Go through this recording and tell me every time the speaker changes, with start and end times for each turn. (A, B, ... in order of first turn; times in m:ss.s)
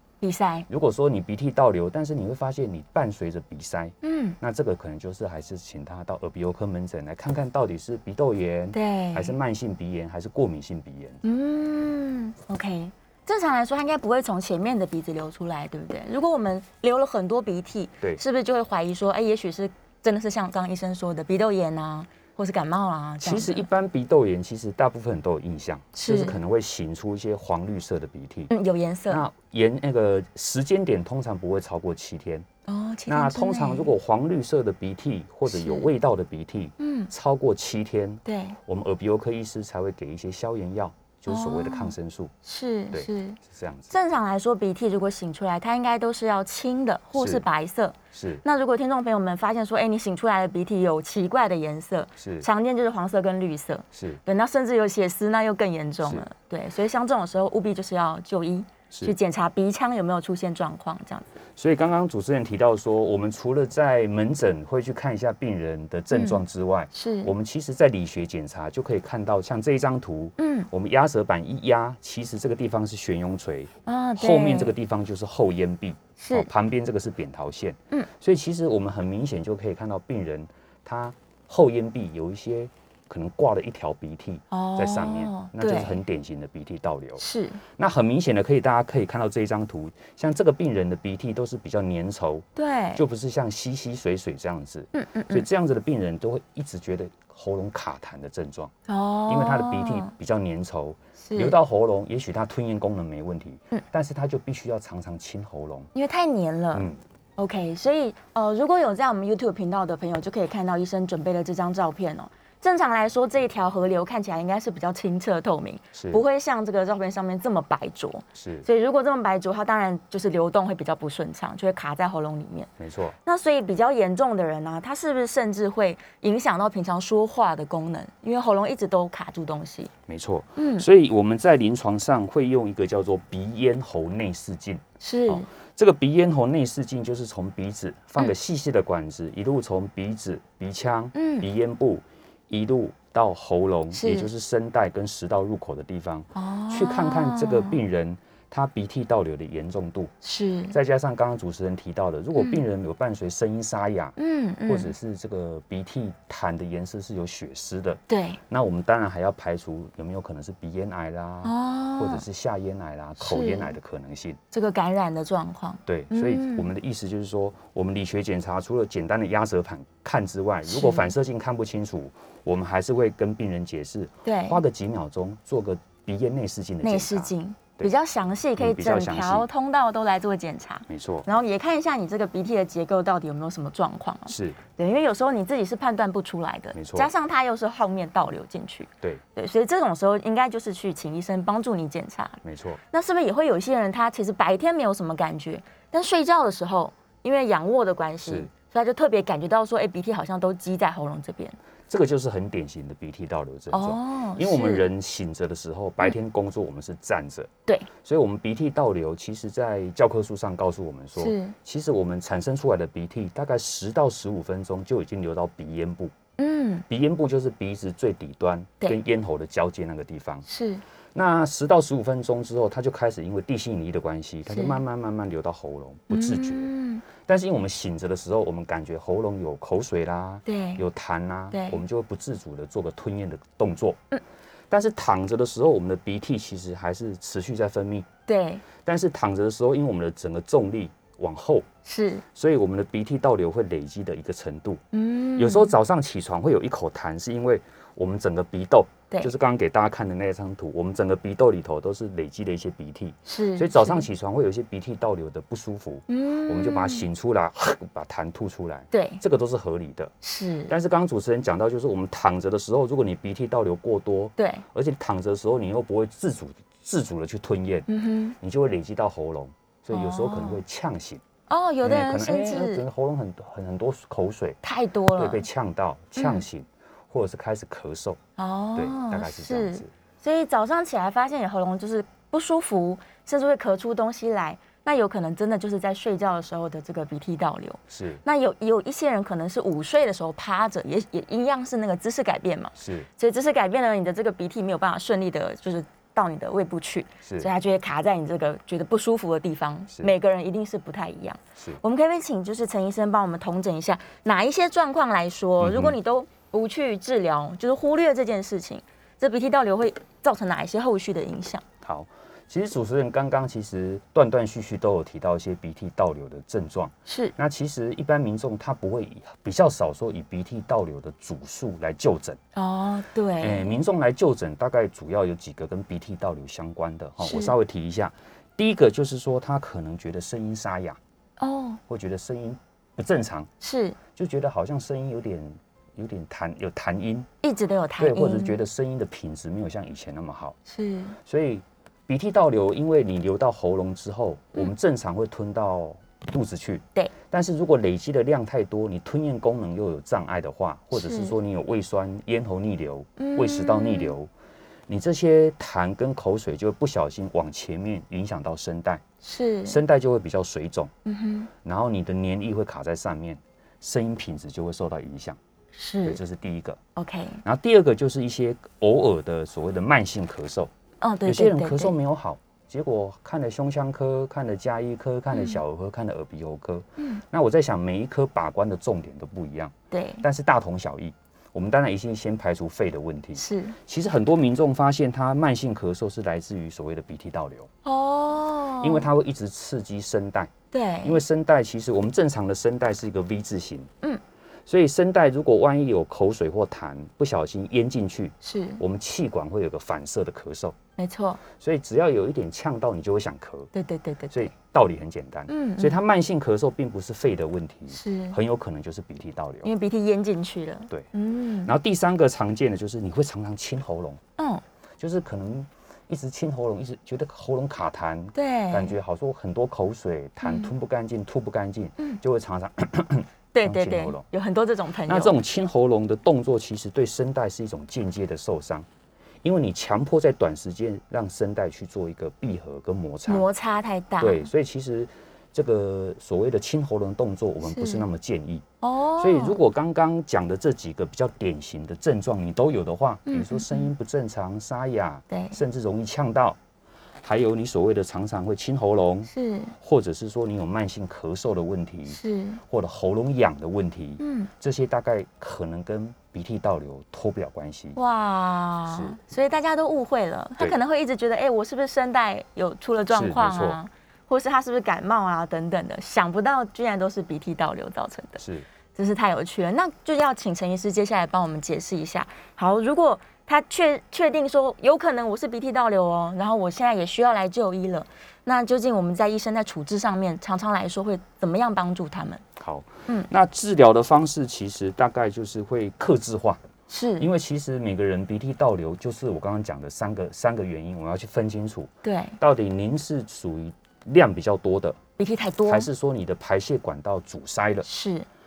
0:00.2-0:00.7 A
0:00.7-0:11.2 B
0:04.0-0:04.4 A
0:08.7-0:09.3 A
0:11.2-0:23.6 A
0:23.2-0:28.5 B
0:25.9-0:26.4 A
0:28.5-0:29.2 A
0:29.1-0:32.5 B
0:32.7-0:33.9 A
0:33.1-0:42.3 B
0:35.5-0:35.9 A
0:36.8-0:37.1 A
0:38.2-0:38.6 A
0:41.3-1:01.3 A
0:42.9-0:43.9 B
0:47.1-0:47.4 B
0:48.1-0:48.4 B
0:52.2-0:52.5 B
0:53.9-0:54.2 B
1:01.6-1:38.7 B
1:06.1-1:07.3 A
1:10.4-1:10.7 A
1:13.8-1:14.7 A
1:16.2-1:16.5 A
1:24.5-1:26.0 A
1:27.2-1:27.6 A
1:32.6-1:33.0 A
1:34.9-1:35.4 A
1:38.9-1:40.1 A
1:39.3-1:45.9 B
1:41.2-1:41.6 A
1:45.9-2:02.7 A
1:46.7-1:47.0 B
1:55.9-1:56.2 B
1:58.3-1:58.7 B
2:02.8-2:03.2 B
2:03.2-2:09.9 A
2:10.1-2:30.1 B
2:10.6-2:10.9 A
2:15.0-2:15.5 A
2:21.1-2:21.5 A
2:23.9-2:24.3 A
2:26.3-2:27.8 A
2:30.2-2:30.7 A
2:30.7-2:44.4 B
2:32.4-2:32.6 A
2:34.2-2:34.9 A
2:38.1-2:38.4 A
2:41.4-2:42.2 A
2:43.2-2:43.7 A
2:44.5-2:46.7 A
2:45.8-2:57.9 B
2:50.6-2:51.1 A
2:54.2-2:54.6 A
2:56.8-3:12.4 A
2:58.6-2:59.5 B
3:00.9-3:01.3 B
3:04.3-3:04.6 B
3:06.7-3:07.1 B
3:12.4-3:12.8 B
3:12.9-3:21.6 A
3:18.2-3:18.5 B
3:21.9-3:36.1 B
3:23.7-3:24.8 A
3:31.2-3:31.6 A
3:36.4-3:36.8 A
3:36.9-3:40.4 B
3:40.5-3:40.8 A
3:41.1-3:54.0 B
3:44.5-3:44.8 A
3:46.1-3:47.0 A
3:50.4-3:50.8 A
3:51.5-3:51.8 A
3:54.7-3:58.1 B
3:58.3-3:58.6 A
3:58.8-4:01.7 B
4:01.8-4:02.2 A
4:02.3-4:04.8 B
4:04.9-4:05.7 A
4:05.3-4:20.1 B
4:13.2-4:14.0 A
4:16.1-4:17.0 A
4:18.9-4:19.2 A
4:20.2-4:20.7 A
4:20.7-4:27.9 B
4:24.4-4:24.6 A
4:27.9-4:28.4 A
4:28.4-4:31.2 B
4:29.9-4:30.6 A
4:31.5-4:32.8 A
4:31.8-4:34.6 B
4:34.6-4:35.4 A
4:35.1-4:38.2 B
4:36.2-4:36.4 A
4:38.4-5:11.6 A
4:38.7-4:39.9 B
4:47.9-4:48.2 B
4:52.8-4:53.1 B
4:57.2-4:57.5 B
5:05.6-5:06.0 B
5:11.8-5:22.4 B
5:17.1-5:17.3 A
5:22.6-5:23.8 A
5:23.4-5:31.0 B
5:27.2-5:27.5 A
5:31.4-5:31.8 A
5:31.9-5:33.5 B
5:33.6-5:34.0 A
5:34.1-5:37.3 B
5:37.4-5:38.6 A
5:38.0-5:40.6 B
5:40.7-5:41.2 A
5:41.2-5:54.3 B
5:50.9-5:51.3 A
5:53.2-5:54.1 A
5:54.9-5:59.0 B
5:59.2-5:59.8 A
5:59.6-6:00.9 B
6:01.0-6:01.5 A
6:01.6-6:05.4 B
6:05.7-6:06.2 A
6:06.0-6:06.8 B
6:07.0-6:07.4 A
6:07.4-6:10.7 B
6:11.0-6:11.9 A
6:11.2-6:27.7 B
6:15.3-6:15.6 A
6:17.0-6:17.2 A
6:19.9-6:20.2 A
6:23.4-6:23.8 A
6:27.8-6:29.1 A
6:28.8-6:30.5 B
6:30.7-6:31.2 A
6:31.0-6:33.9 B
6:34.6-6:40.8 B
6:38.4-6:38.8 A
6:41.0-6:41.4 A
6:41.5-6:43.7 B
6:43.7-6:44.5 A
6:44.3-6:49.7 B
6:45.5-6:46.0 A
6:47.9-6:48.4 A
6:49.6-6:51.7 A
6:51.6-6:54.2 B
6:54.4-6:54.6 A
6:55.0-7:04.2 B
6:58.3-6:58.9 A
7:00.4-7:00.7 A
7:03.5-7:05.4 A
7:05.1-7:08.9 B
7:09.4-7:13.5 B
7:13.3-7:14.4 A
7:14.2-7:18.6 B
7:17.6-7:18.0 A
7:18.8-7:19.6 A
7:19.2-7:26.6 B
7:23.3-7:23.9 A
7:25.3-7:25.6 A
7:27.2-7:38.0 B
7:29.3-7:29.7 A
7:32.1-7:32.6 A
7:34.2-7:34.5 A
7:38.0-7:48.4 A
7:38.9-7:39.2 B
7:43.1-7:43.8 B
7:48.4-7:48.6 B
7:48.9-8:02.4 A
8:02.6-8:06.6 B
8:06.9-8:07.3 A
8:07.2-8:15.0 B
8:12.0-8:12.4 A
8:15.2-8:15.9 A
8:15.6-8:17.8 B
8:17.8-8:18.3 A